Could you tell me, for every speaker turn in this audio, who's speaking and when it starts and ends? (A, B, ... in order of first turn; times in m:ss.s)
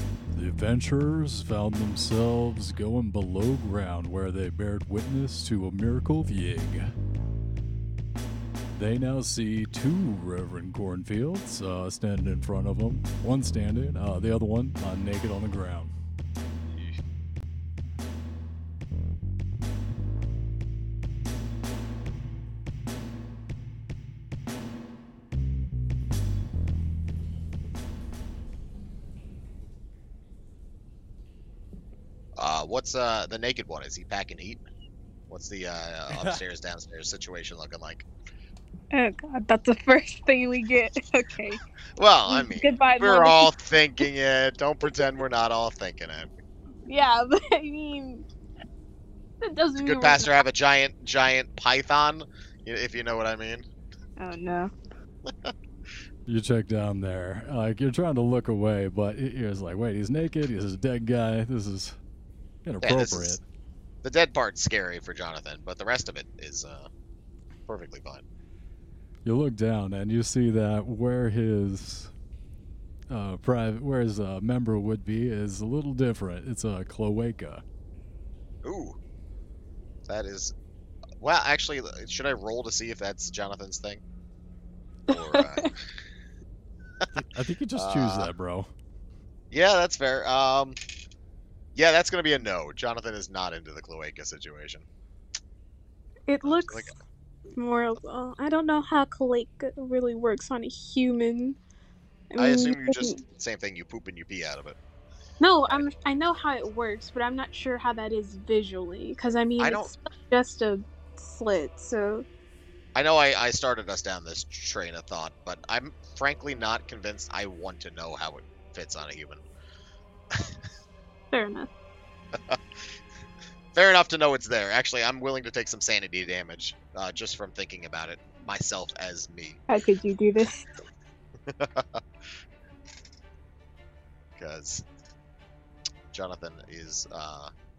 0:00.3-0:06.9 A
0:08.7-0:15.9 A
0:32.4-0:34.6 B
0:35.3-0:38.1 B
0:36.1-0:36.4 A
0:38.9-0:41.6 C
0:42.0-0:46.3 B
0:42.3-0:43.5 C
0:46.9-0:48.2 C
0:49.4-0:50.4 C
0:49.8-0:53.6 B
0:54.2-0:54.7 C
0:55.2-0:55.5 B
0:56.2-1:02.0 A
1:02.6-1:03.4 A
1:02.8-1:03.4 B
1:04.0-1:06.9 B
1:07.7-1:08.2 B
1:09.2-1:12.1 A
1:13.1-1:17.6 A
1:18.6-1:19.0 B
1:20.1-1:20.5 B
1:21.2-1:24.0 B
1:25.1-1:25.8 B
1:25.1-1:25.7 C
1:27.1-1:28.7 A
1:27.7-1:28.3 B
1:29.5-1:30.8 B
1:31.7-1:34.8 B
1:36.3-1:36.9 C
1:36.4-1:37.0 B
1:37.5-1:41.6 C
1:42.3-1:43.2 C
1:42.4-1:44.8 B
1:45.4-1:52.2 C
1:49.6-1:49.9 B
1:52.9-1:59.4 B
2:01.3-2:01.7 C
2:02.3-2:02.6 B
2:03.7-2:09.6 B
2:09.7-2:10.6 C
2:11.4-2:12.0 B
2:14.4-2:14.8 B
2:16.1-2:17.5 B